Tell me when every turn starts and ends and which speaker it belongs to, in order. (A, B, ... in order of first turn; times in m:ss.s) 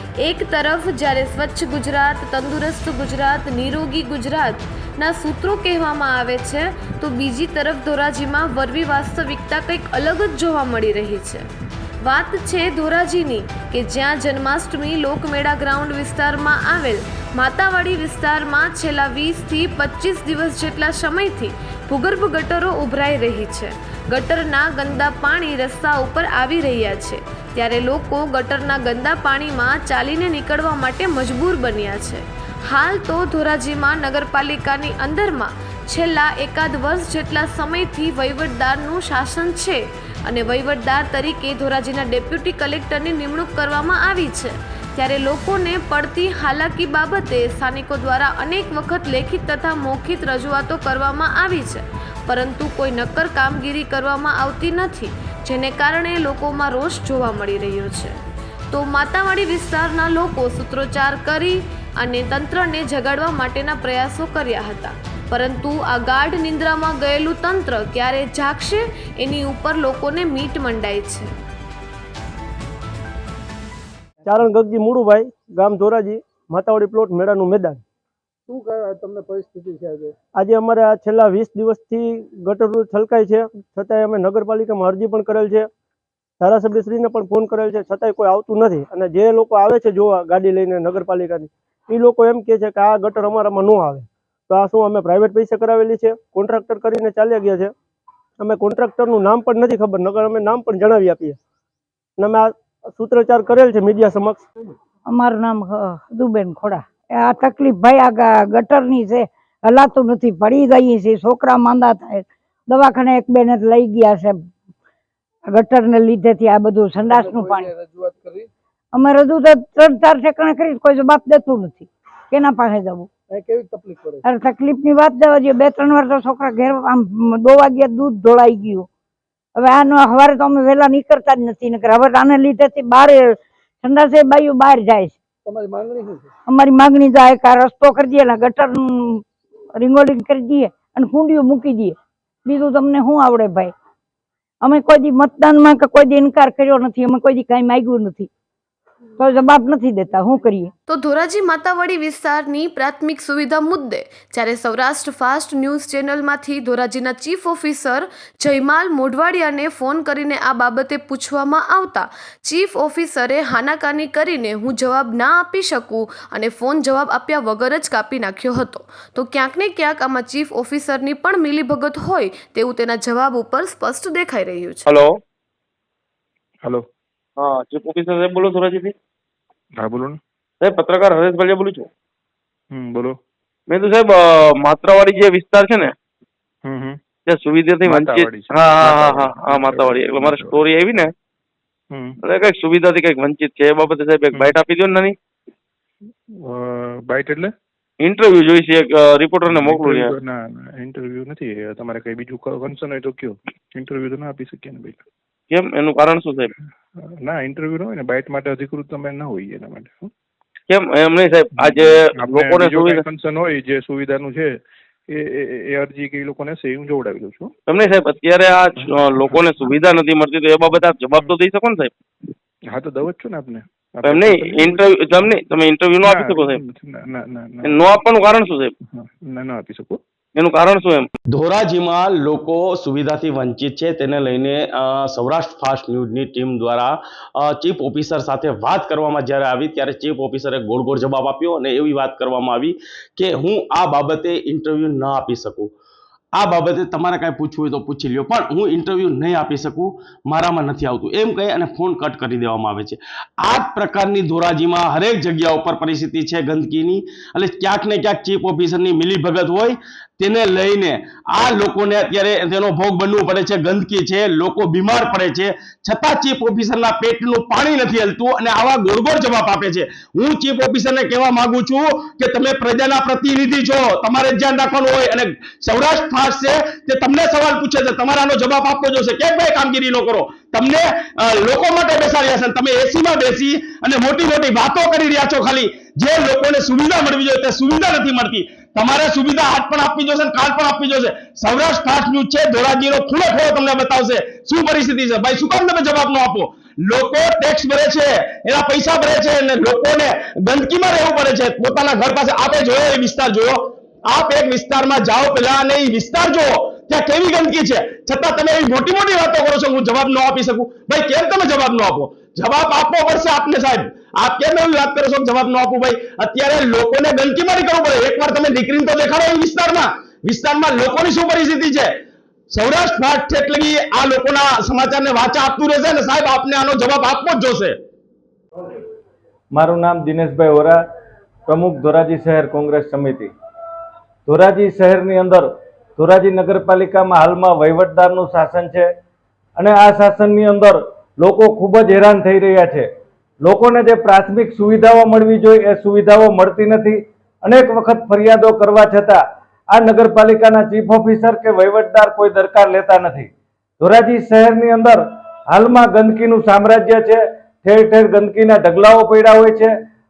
0:00.2-0:11.5 A
0:12.0-0:58.2 A
0:58.7-1:11.3 A
1:14.5-1:17.8 B
1:18.5-1:20.1 C
1:20.4-1:25.7 B
1:26.4-1:37.7 B
1:38.4-1:41.4 B
1:42.2-1:44.4 B
1:45.1-1:54.4 D
1:55.5-1:57.7 D
1:57.0-1:58.5 C
1:58.9-2:03.1 D
2:03.3-2:04.2 C
2:04.2-2:08.9 D
2:09.6-2:15.2 D
2:15.4-2:16.3 C
2:16.5-2:19.2 D
2:19.8-2:23.7 D
2:24.6-2:28.3 D
2:29.2-2:30.7 D
2:30.9-2:54.9 A
2:54.8-2:55.1 E
2:57.4-2:58.9 E
2:59.8-3:00.2 F
3:00.6-3:01.9 E
3:02.7-3:03.2 F
3:03.7-3:05.9 E
3:06.6-3:07.0 F
3:07.2-3:11.1 E
3:07.8-3:10.7 F
3:11.9-3:12.2 F
3:12.2-3:15.2 E
3:14.3-3:14.6 F
3:16.4-3:17.5 F
3:18.0-3:20.1 E
3:19.5-3:25.0 F
3:25.5-3:26.5 E
3:27.2-3:30.1 F
3:30.7-3:33.0 E
3:31.6-3:37.5 F
3:37.7-3:41.9 E
3:38.8-3:39.8 F
3:42.7-3:45.4 F
3:44.0-3:46.6 E
3:46.0-3:48.0 F
3:47.6-3:48.7 E
3:48.9-3:50.0 F
3:50.4-3:51.1 E
3:51.3-4:05.7 G
4:06.4-5:21.9 G
5:22.5-5:27.8 G
5:29.5-5:30.8 H
5:31.5-5:33.3 H
5:34.2-5:38.9 H
5:39.6-5:42.8 H
5:43.4-5:49.2 H
5:49.7-5:59.7 H